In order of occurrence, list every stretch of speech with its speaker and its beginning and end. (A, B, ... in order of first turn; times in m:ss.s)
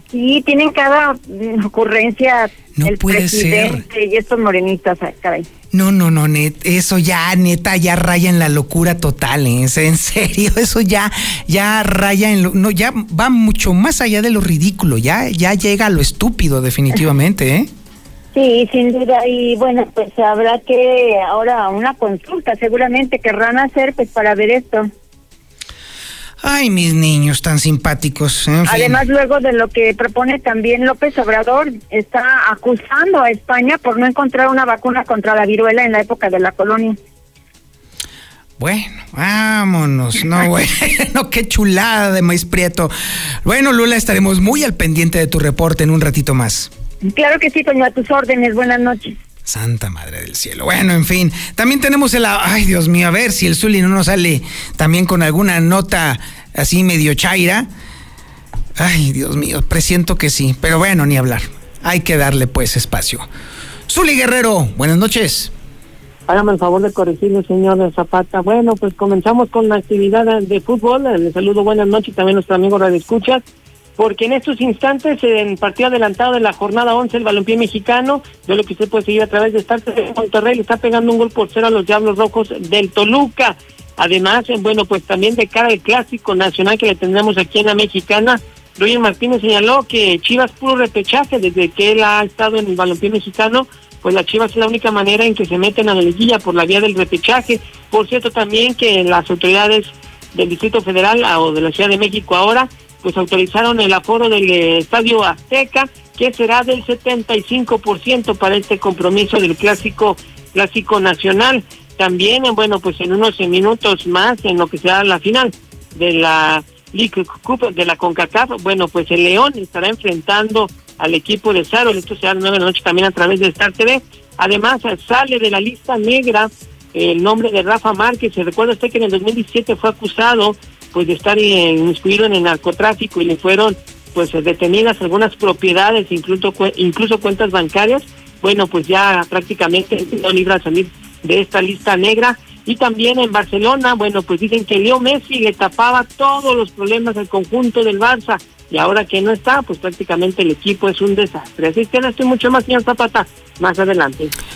0:00.1-0:05.5 A
0:02.7-0:03.8 B
0:05.7-0:17.7 B
0:18.3-0:24.9 A
0:26.4-0:29.0 B
0:28.7-0:37.0 A
0:38.6-0:42.9 B
0:43.4-0:46.7 B
0:47.0-0:49.1 A
0:49.4-0:57.7 B
0:58.8-1:03.3 B
1:03.9-1:05.5 B
1:06.3-1:13.4 C
1:14.0-2:34.3 C